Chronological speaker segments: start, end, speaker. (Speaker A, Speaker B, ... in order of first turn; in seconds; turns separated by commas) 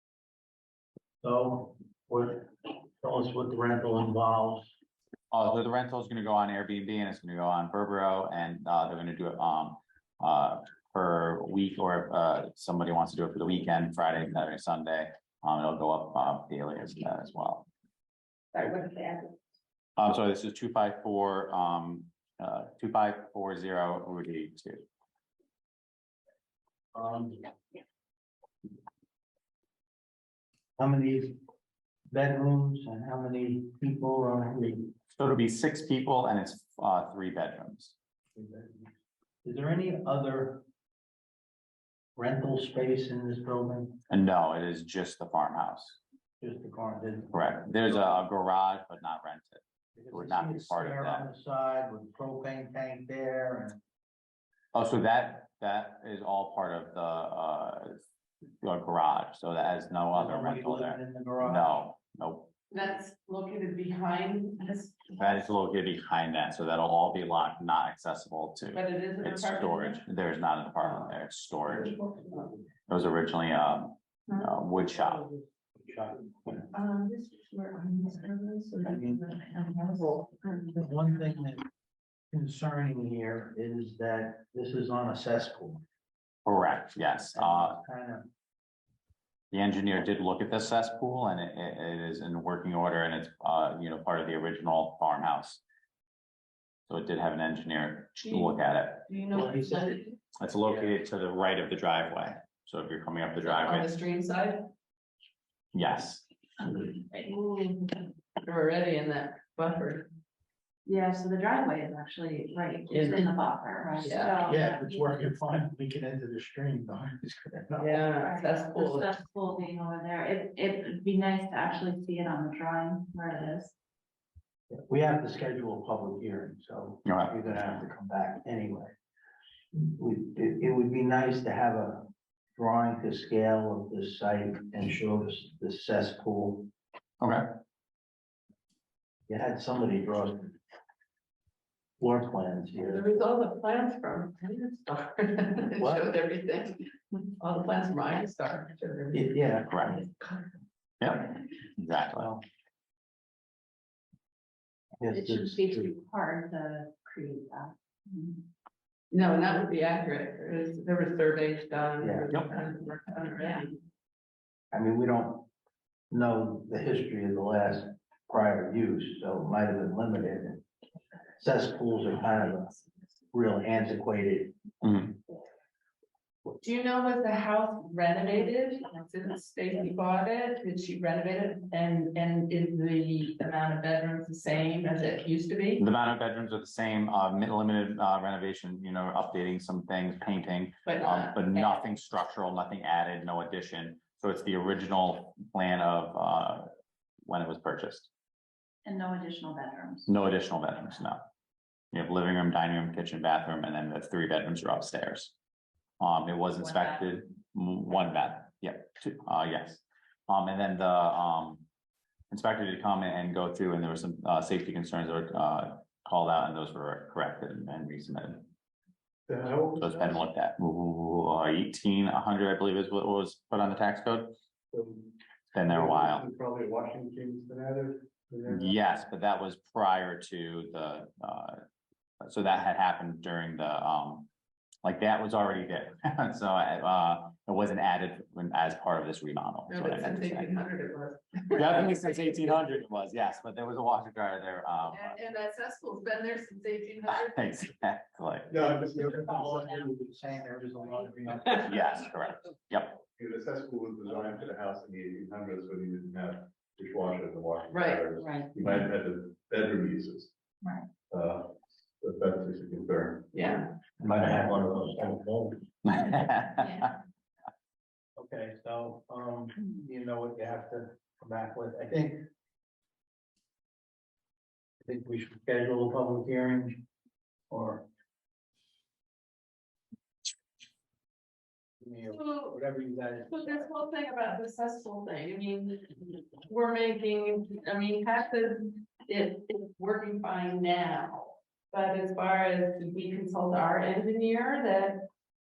Speaker A: 1.2-4.7, Speaker B: 5.3-17.7, Speaker C: 18.5-19.3, Speaker B: 20.0-24.9, Speaker A: 26.9-27.5, Speaker A: 30.8-31.4, Speaker A: 32.1-34.9, Speaker B: 35.1-37.9, Speaker A: 38.4-38.9, Speaker A: 39.4-40.6, Speaker A: 42.1-44.0, Speaker B: 44.1-46.0, Speaker A: 46.4-48.1, Speaker B: 47.3-49.6, Speaker A: 50.0-53.8, Speaker B: 50.1-51.3, Speaker B: 54.7-58.0, Speaker B: 58.6-62.5, Speaker A: 60.1-61.7, Speaker C: 62.7-65.2, Speaker B: 65.2-72.0, Speaker C: 68.7-70.0, Speaker C: 71.7-72.5, Speaker B: 72.9-75.2, Speaker A: 75.8-76.7, Speaker C: 76.7-80.7, Speaker A: 78.8-79.2, Speaker A: 80.7-81.7, Speaker A: 82.3-85.8, Speaker B: 86.5-87.8, Speaker A: 87.3-88.3, Speaker B: 89.5-95.6, Speaker B: 96.9-99.0, Speaker C: 98.2-100.2, Speaker A: 99.3-100.0, Speaker B: 100.3-103.9, Speaker C: 103.4-104.7, Speaker B: 105.7-106.2, Speaker C: 107.1-110.1, Speaker D: 110.8-114.8, Speaker C: 112.9-113.4, Speaker C: 114.0-114.5, Speaker A: 114.4-118.0, Speaker C: 117.7-119.1, Speaker D: 118.2-123.7, Speaker A: 124.7-128.9, Speaker B: 127.0-127.5, Speaker A: 129.7-136.7, Speaker A: 139.3-140.6, Speaker A: 142.0-143.0, Speaker C: 142.8-146.8, Speaker A: 145.8-146.1, Speaker C: 147.4-150.5, Speaker A: 149.1-149.8, Speaker B: 149.7-150.0, Speaker B: 151.0-152.3, Speaker A: 152.2-152.4, Speaker A: 155.0-155.9, Speaker D: 155.1-158.4, Speaker C: 159.1-163.8, Speaker A: 162.0-162.4, Speaker A: 164.7-165.5, Speaker A: 166.1-170.6, Speaker A: 171.4-172.8, Speaker A: 173.3-174.6, Speaker B: 174.8-175.1, Speaker C: 176.6-185.8, Speaker B: 185.8-196.7, Speaker C: 190.8-191.8, Speaker B: 197.3-198.1, Speaker D: 198.8-200.1, Speaker B: 200.1-201.2, Speaker B: 201.9-205.3, Speaker B: 206.0-211.6, Speaker D: 206.6-207.0, Speaker B: 212.3-218.5, Speaker E: 219.3-220.2, Speaker B: 219.8-224.4, Speaker E: 224.7-228.8, Speaker B: 225.5-226.2, Speaker B: 228.4-231.6, Speaker B: 232.2-234.3, Speaker B: 234.8-240.6, Speaker C: 239.7-241.9, Speaker B: 241.5-245.2, Speaker C: 244.9-247.4, Speaker B: 247.1-248.5, Speaker E: 248.5-250.0, Speaker A: 248.7-251.8, Speaker B: 251.6-253.0, Speaker E: 253.1-260.3, Speaker C: 257.7-258.1, Speaker D: 258.2-258.5, Speaker E: 261.1-263.3, Speaker C: 263.3-263.7, Speaker A: 264.0-265.6, Speaker E: 264.0-265.2, Speaker B: 265.8-266.9, Speaker A: 268.2-272.2, Speaker A: 274.9-276.8, Speaker A: 277.5-277.9, Speaker A: 281.8-283.7, Speaker C: 282.0-282.6, Speaker C: 283.3-295.1